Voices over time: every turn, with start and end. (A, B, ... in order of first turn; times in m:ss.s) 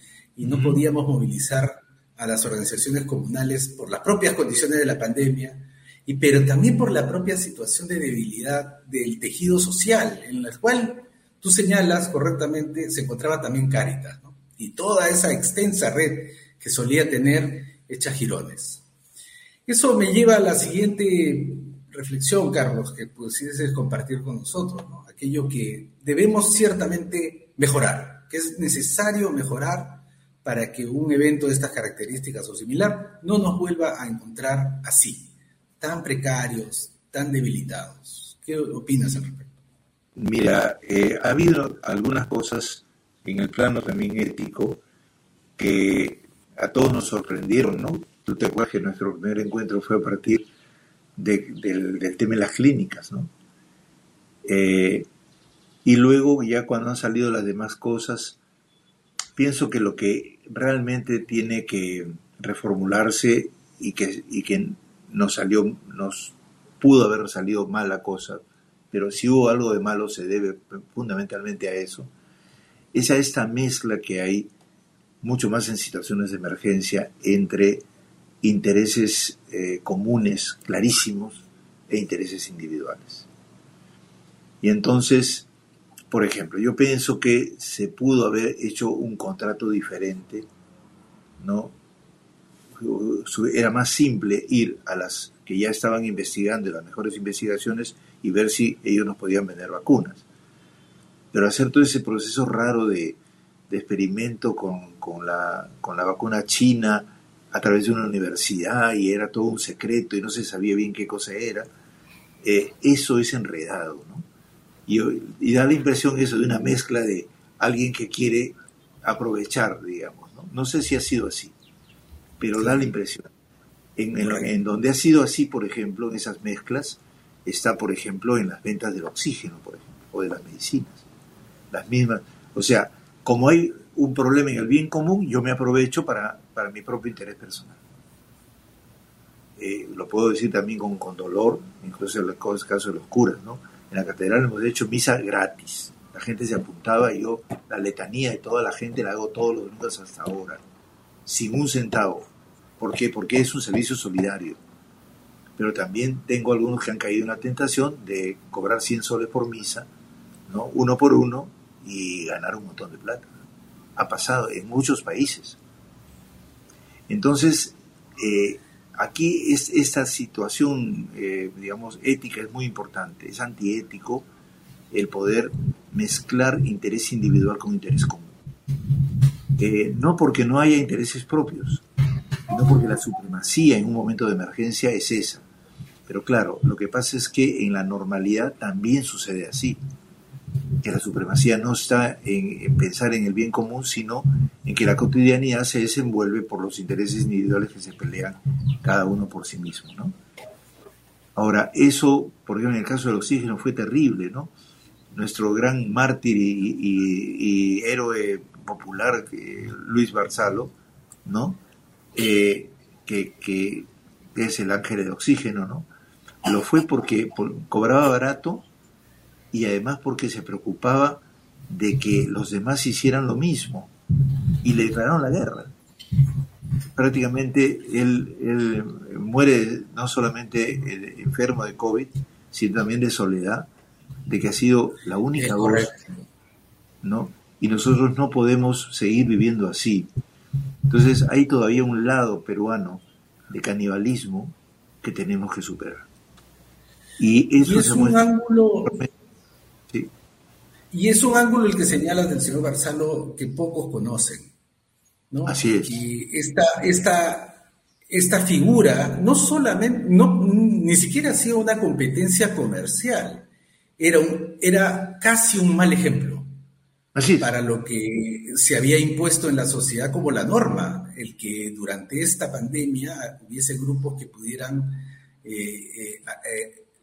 0:00.4-0:18.8 A
0:00.4-0:00.8 B
0:19.6-0:39.5 A
0:40.2-0:44.8 B
0:45.6-0:50.4 B
0:51.2-0:53.3 B
0:54.4-0:55.1 B
0:55.8-0:58.4 B
0:59.4-1:12.1 B
1:12.9-1:14.5 B
1:15.2-1:17.8 B
1:18.4-1:23.3 B
1:24.6-1:25.5 B
1:26.1-1:30.5 B
1:31.4-1:31.7 B
1:32.7-1:40.2 B
1:41.3-1:51.7 B
1:52.4-1:54.2 B
1:54.9-2:01.5 B
2:02.4-2:03.3 B
2:02.6-2:02.8 A
2:04.0-2:11.0 B
2:04.2-2:04.5 A
2:11.7-2:17.8 B
2:19.6-2:30.6 B
2:31.2-2:32.3 B
2:32.8-2:34.6 B
2:35.6-2:39.9 B
2:40.5-2:43.3 B
2:44.0-2:45.6 B
2:47.1-2:54.2 B
2:54.9-2:58.3 B
2:59.6-3:01.8 B
3:02.5-3:05.4 B
3:06.1-3:09.8 B
3:10.8-3:20.1 B
3:21.4-3:24.5 B
3:25.1-3:30.7 B
3:31.2-3:31.6 B
3:32.1-3:35.9 B
3:36.4-3:38.7 B
3:39.5-3:43.9 B
3:44.6-3:45.7 B
3:47.0-3:53.7 B
3:54.2-3:55.9 B
3:55.4-3:56.2 A
3:57.0-4:00.1 B
4:00.9-4:06.1 B
4:07.2-4:08.2 B
4:07.6-4:09.0 A
4:10.9-4:14.5 A
4:15.3-4:23.5 A
4:15.5-4:16.0 B
4:24.0-4:26.5 A
4:27.1-4:27.5 B
4:27.4-4:36.8 A